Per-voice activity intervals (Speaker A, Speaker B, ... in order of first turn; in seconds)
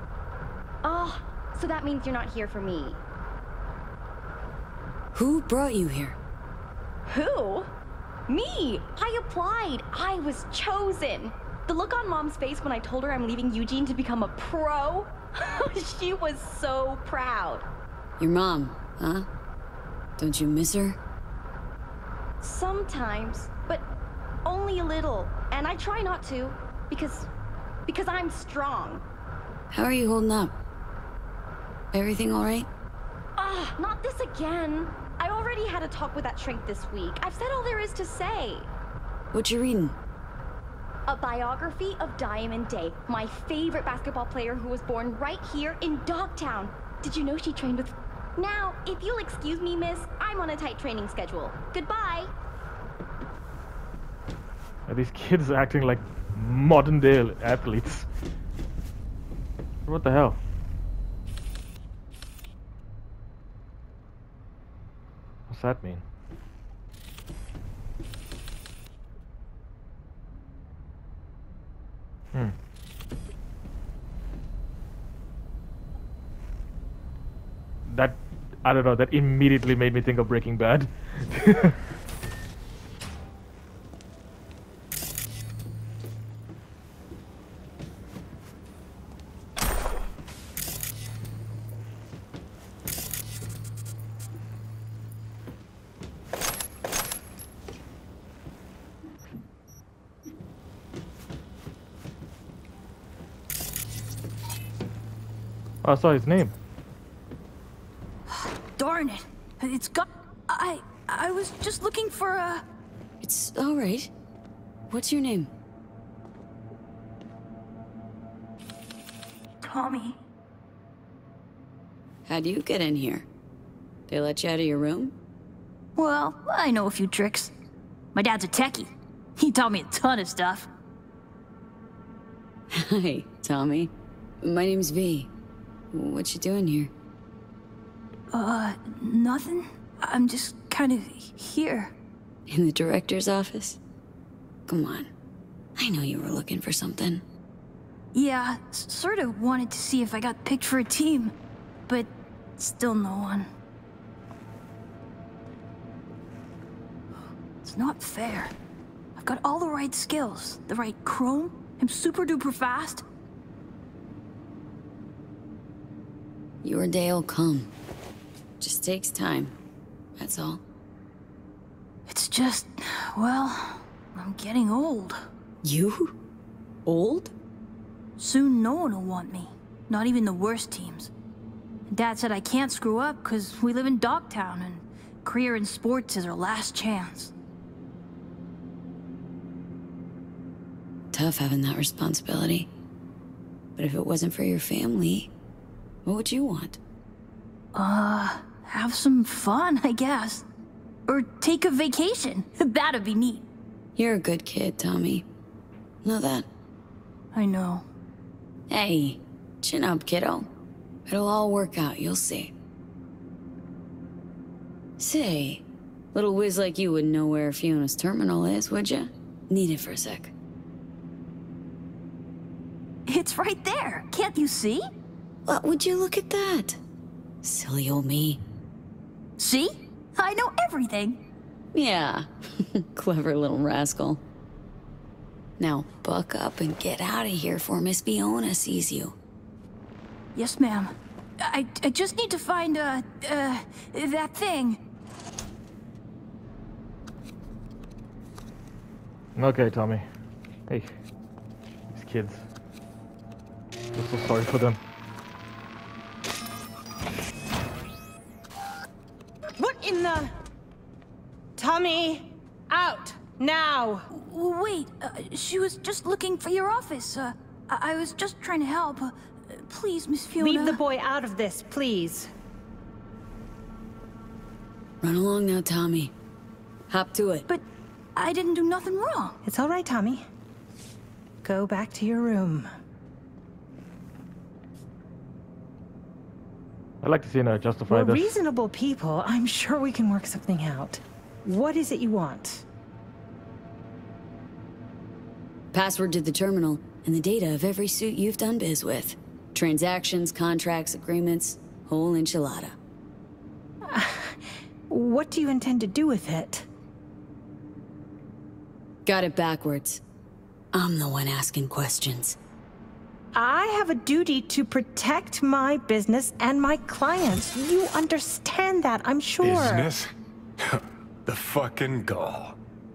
Speaker A: 0.8-3.0, 7.1-7.7, 8.3-17.6, 22.4-23.9, 24.4-27.3, 27.9-29.0, 33.4-38.7, 41.1-52.3
Speaker B: 5.1-6.2, 18.2-19.3, 20.2-21.0, 29.7-30.5, 31.9-32.7, 39.3-40.0, 113.2-114.1, 114.9-115.5, 122.2-123.2, 124.1-125.1, 132.7-135.3, 135.9-136.9, 142.5-143.8, 144.7-145.1, 145.8-147.2, 166.6-167.7, 168.6-169.5, 170.2-170.6, 175.6-176.1, 176.8-177.3, 191.1-192.7, 193.8-195.3, 196.0-196.8, 203.9-205.2, 206.0-206.5, 208.7-210.5, 211.1-212.5, 215.0-220.3, 225.5-226.8, 227.4-228.4, 231.7-234.2, 235.6-239.1, 275.0-276.1, 276.9-277.4, 295.7-302.8, 309.0-310.0, 310.7-312.4
Speaker C: 54.9-58.1, 59.9-60.4, 65.5-66.0, 77.8-81.7, 105.8-106.5, 249.3-250.0, 251.9-252.4, 253.9-254.8, 287.0-288.4
Speaker D: 108.3-112.6, 119.6-120.2, 126.0-127.5, 128.1-130.7, 138.3-141.9, 148.1-151.3, 151.9-153.5, 157.6-158.5, 159.2-163.0, 172.1-175.2, 178.2-181.1, 181.9-187.3, 197.7-200.4, 201.1-203.4, 207.3-207.8, 223.1-224.9, 229.4-231.2, 240.3-244.8, 264.1-270.8, 278.1-279.4
Speaker E: 259.6-260.3, 261.6-264.0, 270.4-272.3, 279.4-280.2, 281.4-282.7, 287.9-292.6, 303.9-306.6, 313.3-319.9
Speaker F: 319.4-322.6